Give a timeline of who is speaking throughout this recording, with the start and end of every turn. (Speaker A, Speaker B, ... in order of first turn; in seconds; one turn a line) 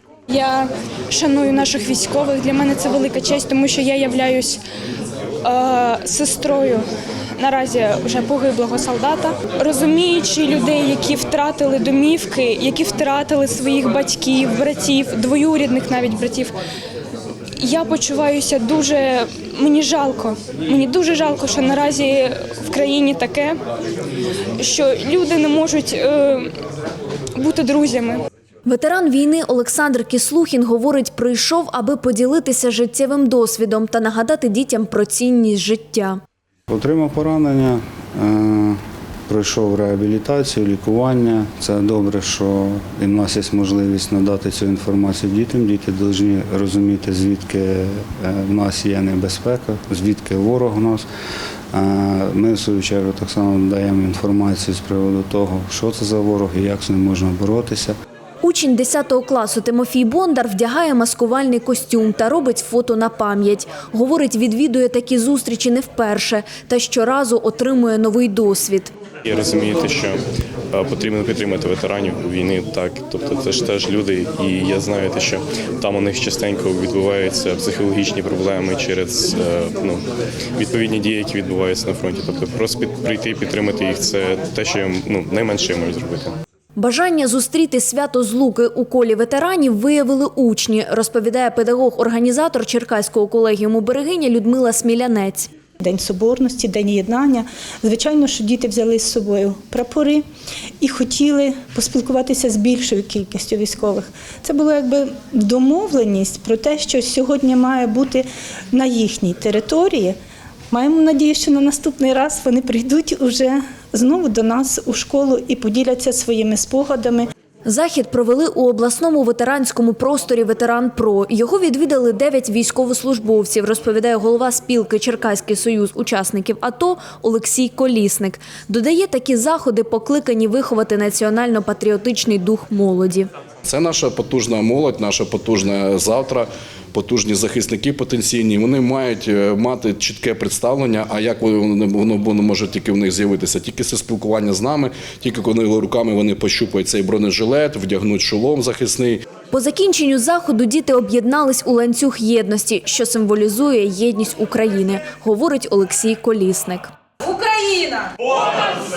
Speaker A: 0.3-4.6
Speaker A: 5.4-6.8
Speaker A: 7.4-16.5
Speaker A: 17.6-23.6
Speaker A: 24.6-26.5
Speaker A: 27.4-28.2
Speaker B: 28.6-36.2
Speaker C: 36.7-51.0
Speaker C: 51.7-57.9
Speaker B: 58.4-68.9
Speaker D: 69.2-70.2
Speaker D: 70.7-80.0
Speaker D: 80.6-86.3
Speaker B: 86.8-95.5
Speaker E: 95.8-100.2
Speaker E: 100.8-110.1
Speaker E: 110.7-117.3
Speaker B: 117.6-133.3
Speaker F: 133.6-149.2
Speaker B: 149.5-156.9
Speaker A: 157.4-157.8